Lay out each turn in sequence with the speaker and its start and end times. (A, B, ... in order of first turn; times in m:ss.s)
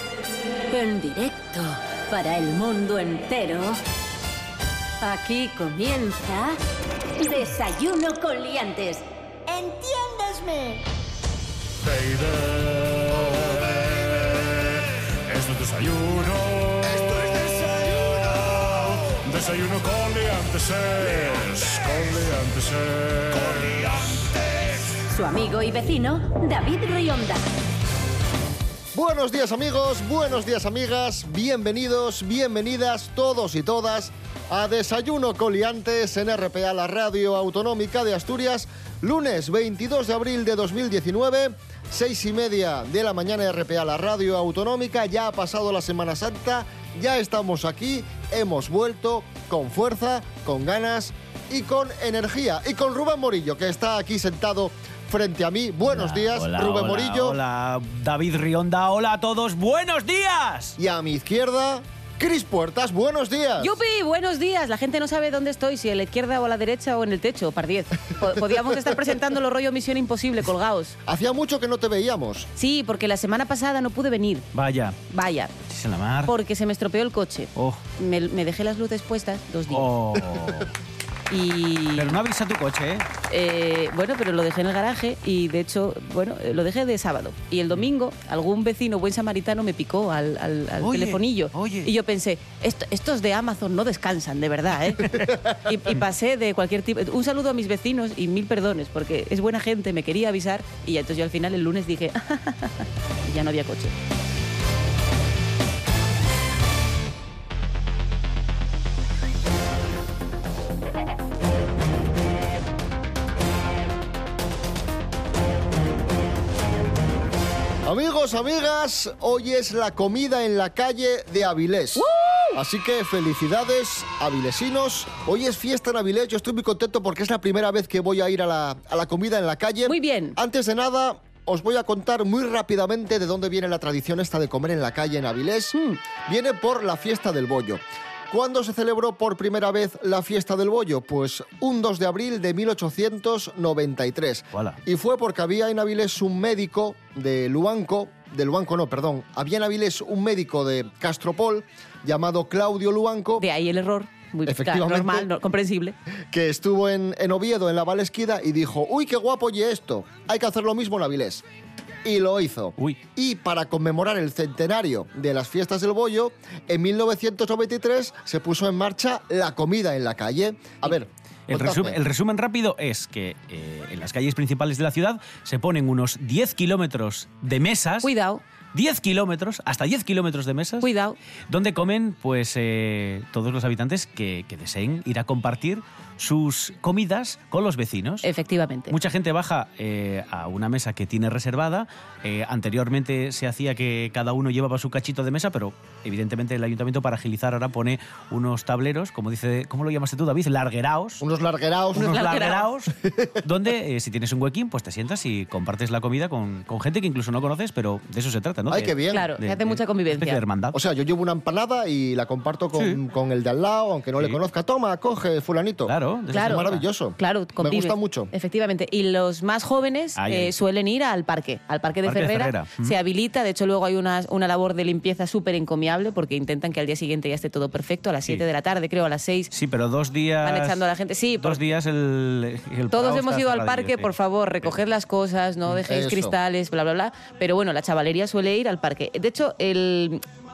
0:00.7-0:03.8 A
0:05.0-0:06.6 A
0:07.2-0:10.8 A
0:11.8-0:17.4 B
0:18.3-0:23.9 B
0:25.1-0:27.4 A
0:28.9-0:57.4 C
0:55.9-1:00.8 D
1:00.8-1:03.8 C
1:03.6-1:11.0 E
1:11.1-1:12.5 C
1:12.6-1:14.5 E
1:14.5-1:15.0 D
1:15.1-1:15.5 E
1:15.7-1:16.3 D
1:16.3-1:19.9 E
1:17.6-1:17.8 D
1:19.7-1:20.7 D
1:21.3-1:22.2 E
1:22.0-1:23.1 D
1:23.3-1:43.9 E
1:30.8-1:31.9 D
1:57.8-2:33.5 C
2:02.0-2:02.5 E
2:09.9-2:10.4 E
2:24.5-2:24.8 D
2:33.4-2:36.0 E
2:34.4-2:35.3 C
2:36.3-2:41.4 C
2:42.0-2:52.0 C
2:51.5-2:58.1 D
2:58.0-2:58.4 E
2:58.7-3:00.9 D
3:00.8-3:01.2 E
3:01.5-3:08.3 D
3:08.2-3:08.9 E
3:08.9-3:21.2 D
3:21.2-3:22.2 C
3:22.0-3:22.7 E
3:22.0-3:22.9 D
3:23.0-3:23.4 C
3:23.4-3:30.8 D
3:28.7-3:29.3 C
3:29.1-3:30.4 E
3:30.7-3:38.3 C
3:35.9-3:36.8 D
3:36.3-3:49.5 E
3:40.2-3:40.5 D
3:42.0-3:43.0 D
3:49.5-3:50.8 D
3:50.4-3:51.6 E
3:51.4-3:54.1 D
3:52.9-4:00.2 E
3:55.8-3:56.3 C